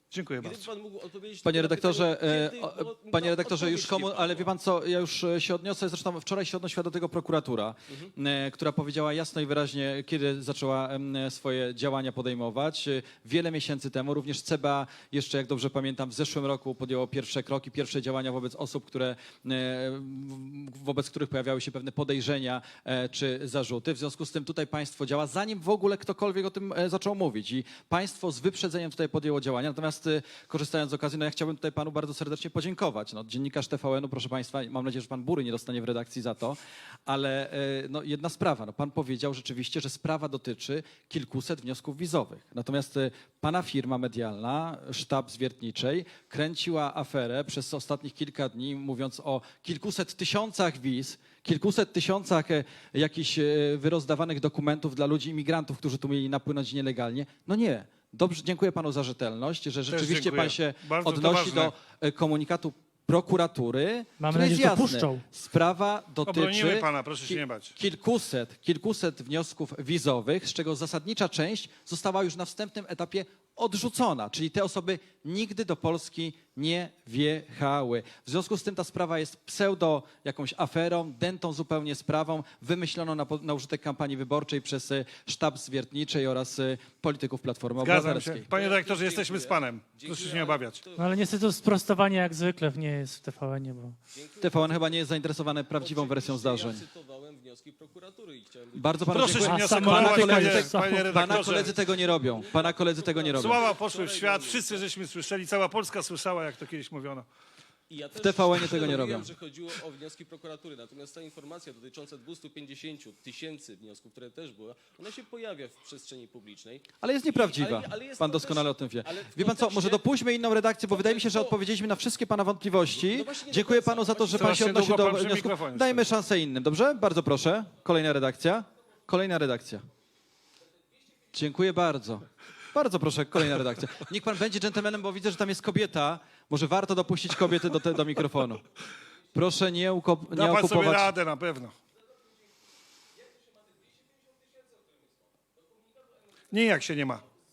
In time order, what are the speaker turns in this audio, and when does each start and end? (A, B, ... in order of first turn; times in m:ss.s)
0:00.1-0:00.7 A
0:00.4-0:04.5 B
0:01.4-1:28.5 C
0:59.9-1:01.7 A
1:04.2-1:05.2 D
1:06.2-1:07.8 A
1:27.8-1:30.8 A
1:28.5-1:31.1 B
1:31.0-1:34.0 D
1:34.1-1:35.1 B
1:34.4-1:36.8 C
1:35.8-1:39.5 B
1:38.8-1:43.6 C
1:39.1-1:41.7 A
1:39.4-1:41.1 D
1:41.4-1:44.8 B
1:43.4-1:47.3 A
1:47.9-2:00.0 B
1:48.1-1:49.3 C
1:57.0-2:09.8 C
2:00.9-2:01.6 B
2:02.9-2:05.0 B
2:04.3-2:06.0 A
2:11.3-2:18.6 C
2:19.3-2:21.1 C
2:20.3-2:21.8 A
2:26.5-2:27.2 A